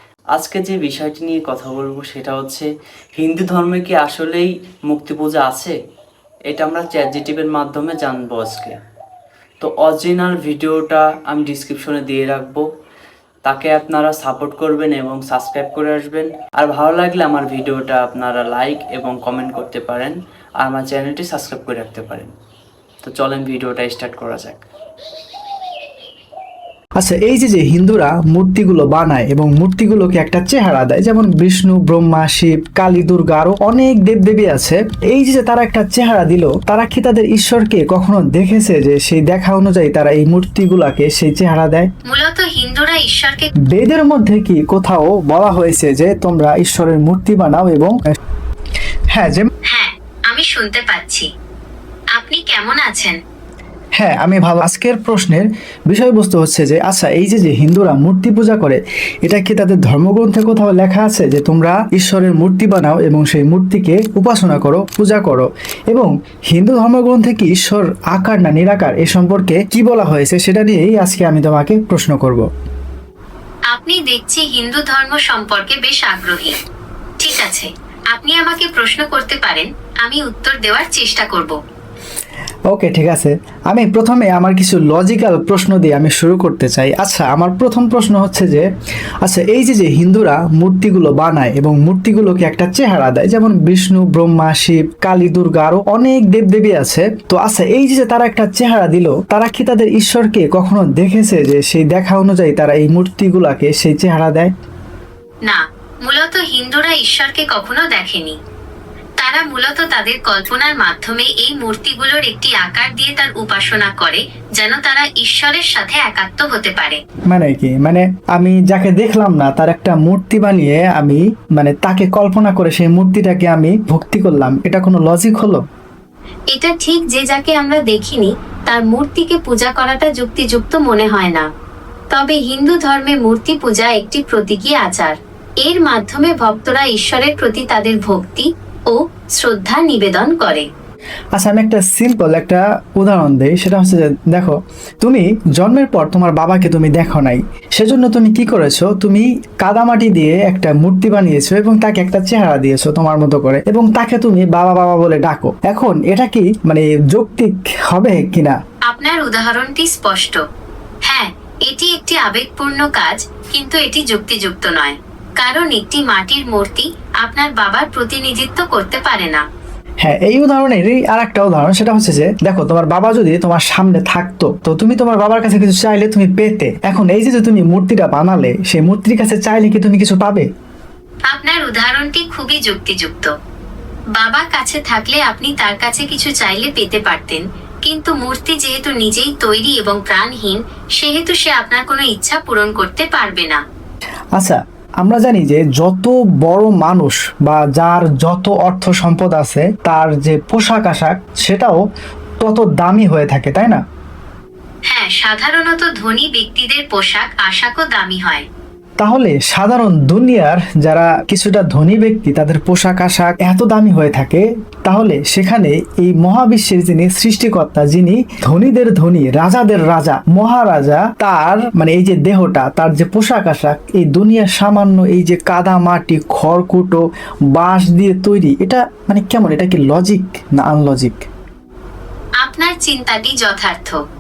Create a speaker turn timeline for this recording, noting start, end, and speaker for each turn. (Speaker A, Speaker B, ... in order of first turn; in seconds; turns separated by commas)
Speaker A: 0.3-5.8, Speaker A: 6.5-8.8, Speaker A: 9.6-12.7, Speaker A: 13.4-22.3, Speaker A: 23.0-24.6, Speaker B: 27.0-41.9, Speaker C: 42.0-43.5, Speaker B: 43.7-48.0, Speaker B: 49.1-49.5, Speaker C: 49.7-51.3, Speaker C: 52.1-53.2, Speaker B: 54.0-72.5, Speaker C: 73.7-76.6, Speaker C: 77.2-81.6, Speaker B: 82.7-88.7, Speaker B: 89.2-104.5, Speaker C: 105.5-108.4, Speaker C: 109.2-117.0, Speaker B: 117.3-125.6, Speaker C: 126.5-131.5, Speaker C: 132.1-140.7, Speaker B: 141.3-158.6, Speaker C: 158.9-160.4, Speaker C: 161.1-169.4, Speaker B: 170.0-180.5, Speaker C: 181.3-183.3, Speaker C: 184.2-193.6, Speaker B: 194.4-201.8, Speaker B: 202.4-203.8, Speaker C: 204.9-208.5, Speaker B: 209.0-227.0, Speaker B: 227.5-231.2, Speaker C: 232.4-234.0